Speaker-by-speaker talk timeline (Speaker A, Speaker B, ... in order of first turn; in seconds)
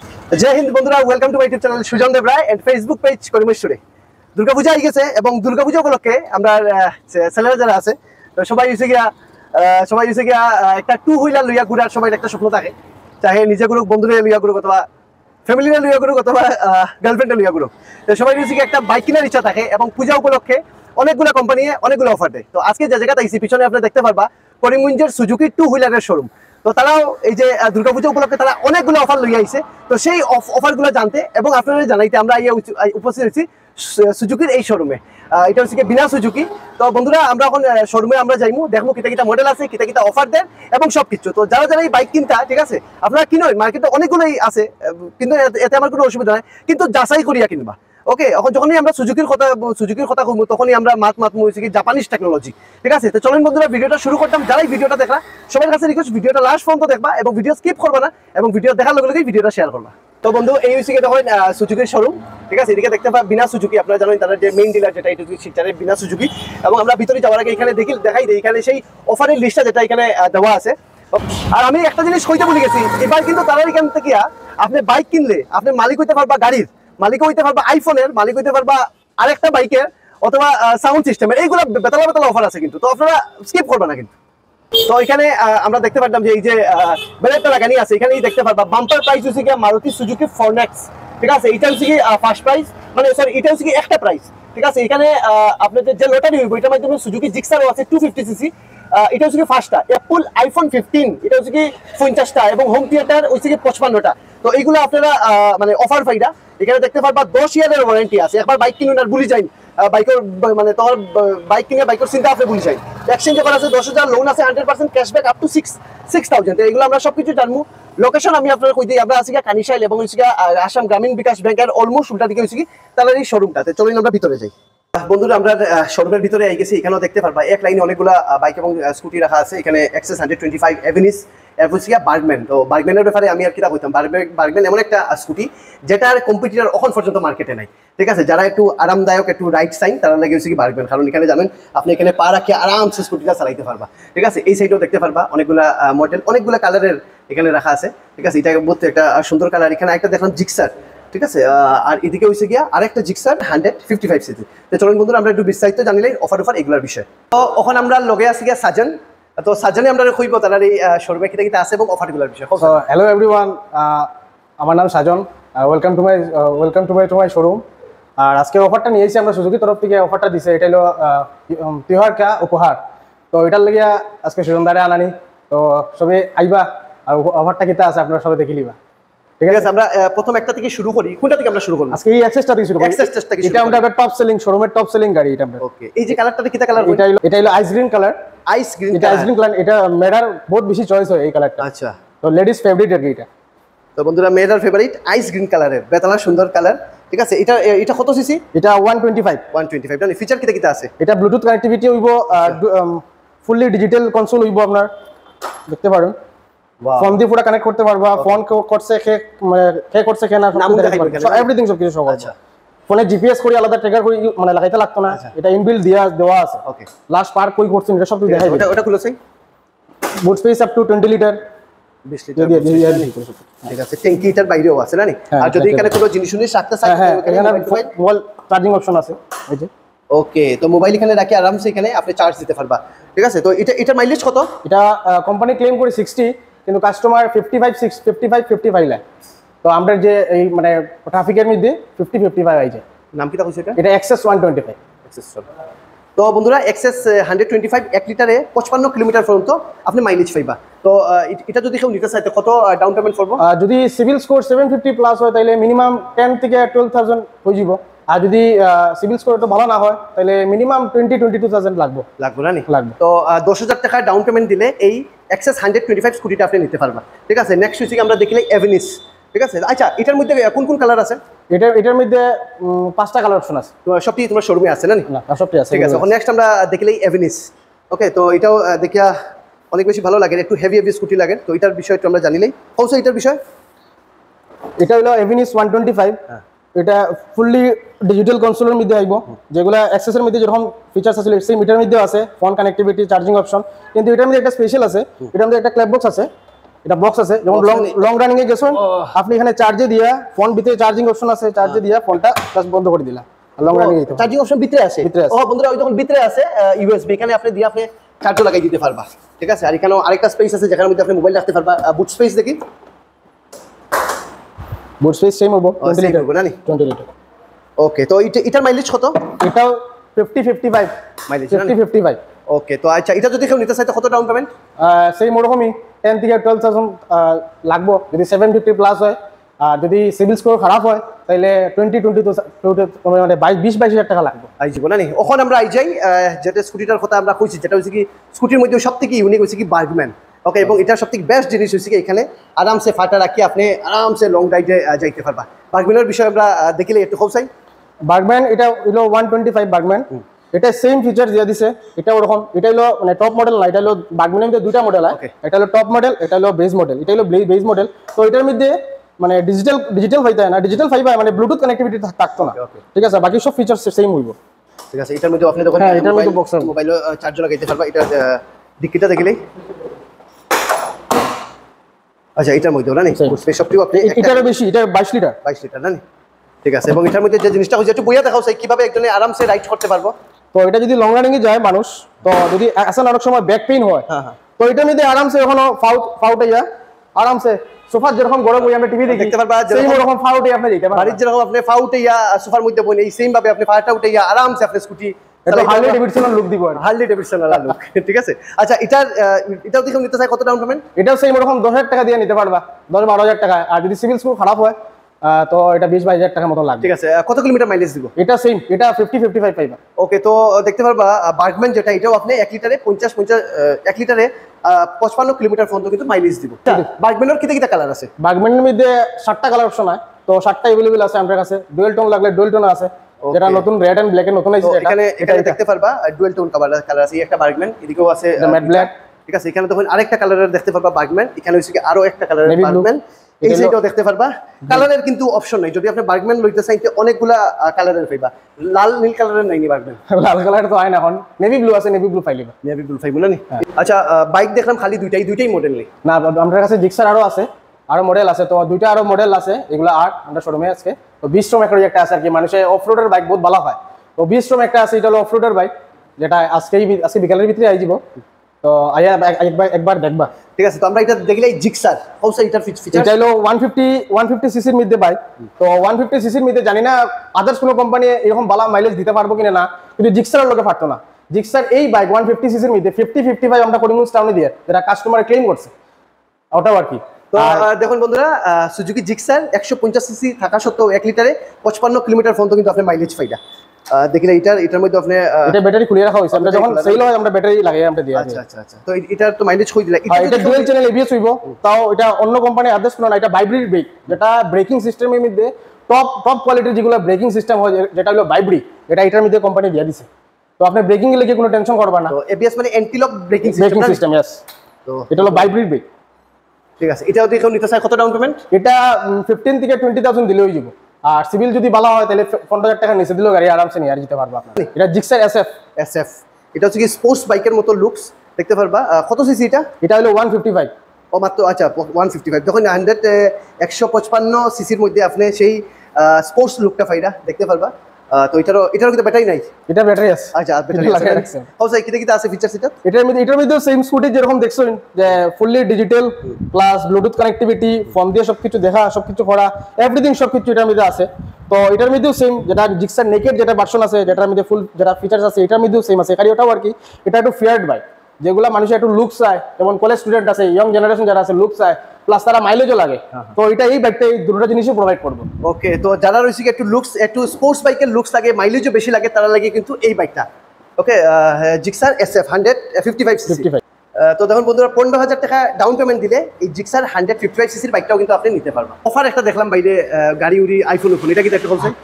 Speaker A: 0.3-3.8, 4.4-14.8, 15.5-84.1, 84.8-162.8, 179.5-182.0, 182.8-183.8, 185.6-187.1, 188.5-189.3, 191.6-192.0, 194.0-198.4, 199.5-200.9, 206.8-207.2, 210.6-211.5, 216.7-216.9, 218.3-219.2, 222.1-223.1, 223.7-227.9, 230.1-234.6, 243.1-243.8, 245.1-245.5, 246.2-253.4, 262.2-271.2, 273.9-275.1, 275.7-279.1, 279.7-283.4, 297.5-298.0, 298.8-299.1, 303.7-312.6, 315.8-316.6, 317.8-319.2, 321.3-321.7, 322.5-324.5, 334.6-347.5, 362.5-362.8, 364.9-369.4, 372.4-374.6, 375.4-376.0, 376.6-380.1, 384.1-384.4, 389.1-390.1, 390.9-396.0, 396.8-400.9, 406.8-408.1, 410.0-418.1, 423.2-423.6, 424.6-440.0, 442.6-445.9, 460.6-463.1, 477.3-483.4, 483.9-485.6, 486.3-487.1, 488.1-490.7, 502.1-504.0, 504.9-505.5, 506.8-508.4, 515.8-519.7, 521.1-529.5, 530.3-532.8, 555.4-560.3, 560.8-571.7
Speaker B: 162.6-167.6, 168.2-172.8, 173.3-178.8, 179.4-179.7, 181.9-185.6, 186.9-188.2, 188.9-191.6, 192.2-193.3, 198.5-199.4, 201.0-204.9, 205.7-206.2, 207.0-212.3, 212.9-218.7, 220.2-221.4, 222.4-223.7, 225.3-226.0, 226.8-229.7, 234.6-239.0, 239.6-242.8, 243.8-244.8, 253.4-262.1, 262.7-262.9, 271.5-273.7, 275.1-276.1, 284.8-286.2, 286.8-296.3, 296.9-304.3, 305.0-305.4, 315.0-317.1, 319.3-320.9, 321.5-322.2, 324.8-334.5, 348.1-364.4, 365.8-366.7, 373.9-375.4, 380.5-384.1, 384.6-391.2, 395.5-396.8, 401.0-406.9, 408.2-409.8, 418.2-425.6, 428.4-428.9, 432.5-432.9, 433.4-433.8, 440.1-442.5, 446.0-458.0, 458.6-460.3, 462.9-475.7, 476.5-477.7, 485.5-488.4, 490.1-500.1, 500.6-502.1, 503.5-504.4, 505.1-505.8, 508.5-515.5, 519.8-520.7, 529.7-531.5, 532.8-555.3, 563.3-563.6